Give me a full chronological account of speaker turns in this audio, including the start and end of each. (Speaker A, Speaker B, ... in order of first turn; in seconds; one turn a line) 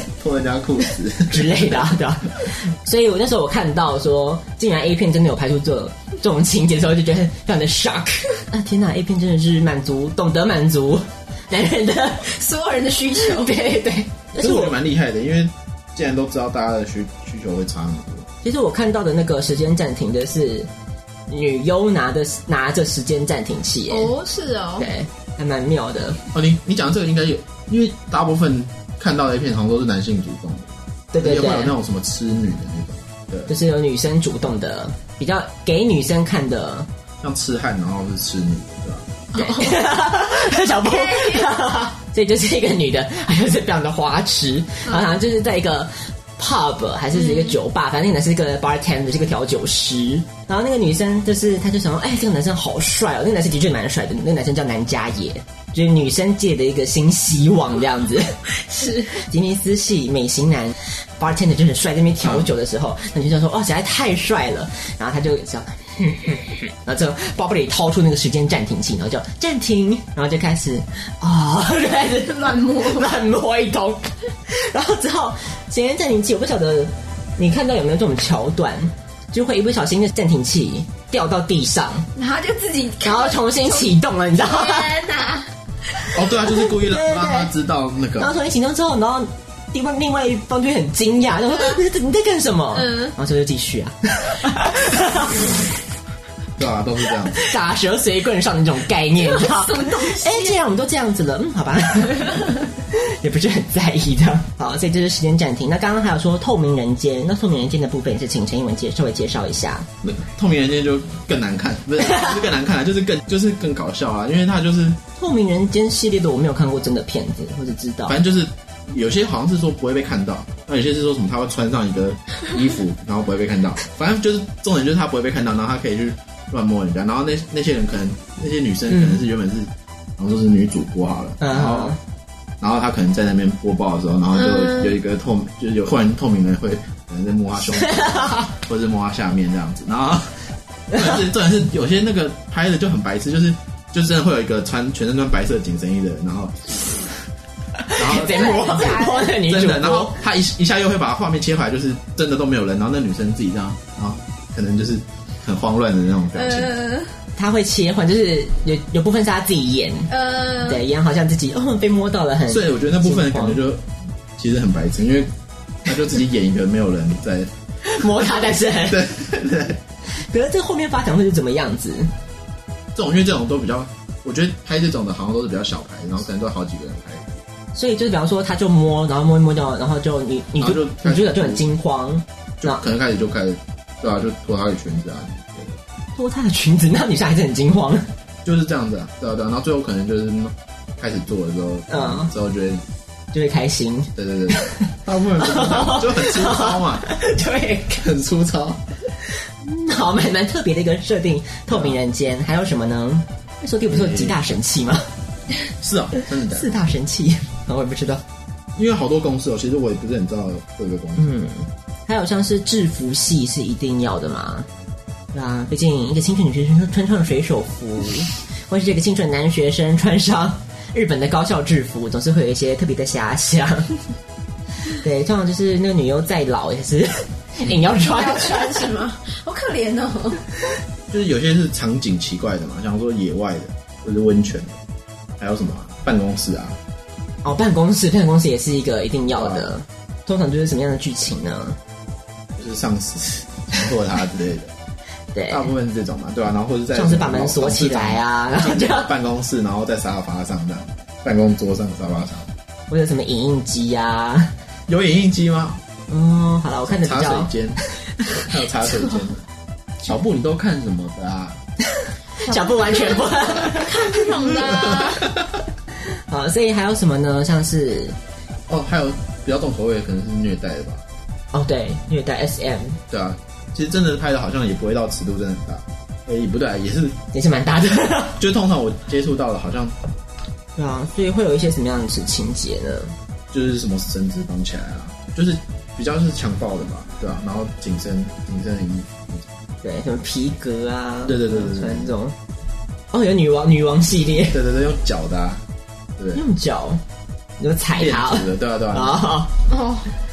Speaker A: 0.2-1.9
Speaker B: 1.3-12.3
Speaker C: 12.2-13.8
Speaker B: 13.2-14.7
Speaker A: 14.4-18.3
Speaker B: 18.4-20.7
Speaker B: 21.3-24.1
Speaker C: 23.9-24.9
Speaker B: 24.8-26.2
Speaker A: 26.3-33.5
Speaker B: 31.1-31.7
Speaker B: 33.5-36.9
Speaker A: 37.2-39.1
Speaker B: 39.3-58.4
Speaker C: 39.3-39.8
Speaker C: 40.8-41.5
Speaker C: 47.2-47.5
Speaker C: 58.7-59.1
Speaker B: 59.1-82.0
Speaker A: 62.2-62.5
Speaker C: 72.2-73.1
Speaker C: 82.1-85.5
Speaker B: 83.0-85.0
Speaker A: 86.1-88.3
Speaker B: 86.7-87.5
Speaker B: 88.2-95.5
Speaker C: 91.5-91.8
Speaker C: 92.8-93.1
Speaker A: 96.6-97.4
Speaker B: 97.3-109.9
Speaker C: 99.2-100.6
Speaker A: 110.0-115.0
Speaker B: 115.2-118.2
Speaker A: 118.1-132.0
Speaker B: 128.9-129.2
Speaker B: 131.4-132.0
Speaker A: 132.6-147.1
Speaker C: 134.5-134.9
Speaker B: 138.0-138.4
Speaker B: 147.8-150.2
Speaker A: 147.9-156.8
Speaker C: 148.1-149.3
Speaker C: 156.3-157.1
Speaker B: 157.3-163.6
Speaker C: 160.1-160.8
Speaker A: 162.5-165.3
Speaker A: 165.8-167.5
Speaker B: 167.8-169.0
Speaker A: 168.8-169.8
Speaker B: 170.3-172.1
Speaker A: 172.9-177.4
Speaker B: 177.7-182.8
Speaker A: 180.6-181.7
Speaker A: 182.6-185.8
Speaker B: 186.2-188.1
Speaker A: 188.4-192.8
Speaker B: 191.9-192.3
Speaker B: 193.3-194.9
Speaker A: 194.1-197.1
Speaker B: 195.4-198.0
Speaker A: 198.0-198.8
Speaker B: 199.6-205.1
Speaker A: 201.7-202.0
Speaker A: 203.9-204.4
Speaker A: 205.8-206.8
Speaker B: 206.5-208.2
Speaker A: 208.8-211.3
Speaker B: 211.2-214.7
Speaker B: 215.3-223.9
Speaker B: 224.9-228.8
Speaker C: 228.0-230.4
Speaker A: 231.1-234.8
Speaker A: 235.4-236.8
Speaker B: 237.4-241.8
Speaker A: 239.3-239.7
Speaker A: 242.6-244.7
Speaker B: 245.3-245.7
Speaker A: 245.5-252.5
Speaker B: 246.9-249.1
Speaker B: 252.9-254.5
Speaker A: 254.9-255.8
Speaker B: 256.1-257.5
Speaker A: 256.8-257.8
Speaker A: 258.3-259.4
Speaker A: 260.0-261.6
Speaker B: 261.9-264.4
Speaker C: 262.4-265.3
Speaker A: 264.6-265.5
Speaker B: 266.3-268.1
Speaker A: 268.7-271.0
Speaker B: 271.5-273.0
Speaker A: 273.1-277.2
Speaker B: 277.3-278.4
Speaker A: 278.4-279.9
Speaker B: 280.8-283.1
Speaker A: 283.5-289.5
Speaker B: 289.8-292.3
Speaker A: 291.2-292.1
Speaker B: 293.1-294.6
Speaker A: 294.5-295.6
Speaker A: 296.2-296.4
Speaker B: 296.3-297.0
Speaker B: 297.6-299.5
Speaker A: 297.9-299.3
Speaker C: 299.7-300.1